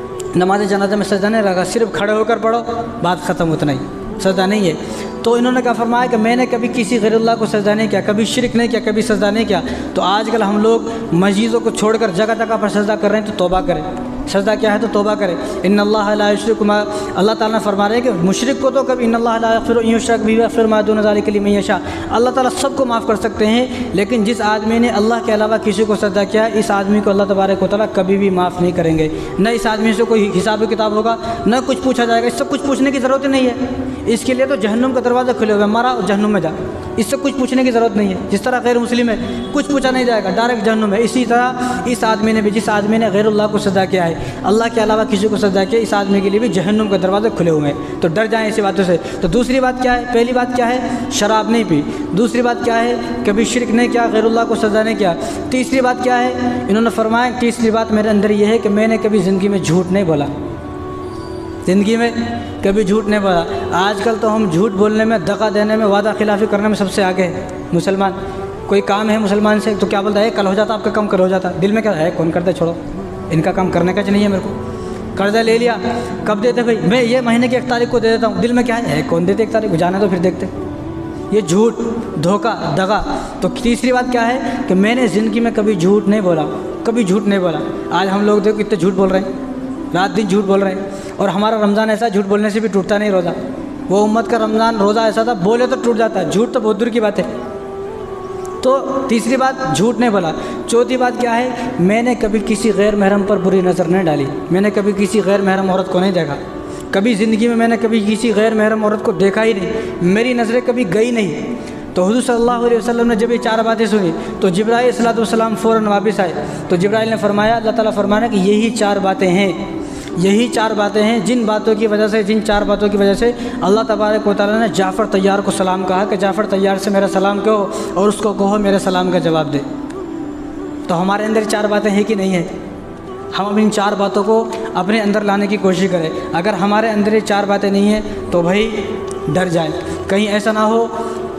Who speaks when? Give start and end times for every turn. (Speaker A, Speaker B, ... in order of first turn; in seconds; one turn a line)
Speaker A: 0.3-60.3
Speaker A: 61.6-72.8
Speaker A: 73.3-74.5
Speaker A: 75.1-80.5
Speaker A: 81.3-89.3
Speaker A: 89.9-97.3
Speaker A: 98.6-106.4
Speaker A: 106.9-119.6
Speaker A: 120.2-129.6
Speaker A: 130.9-132.5
Speaker A: 133.3-140.9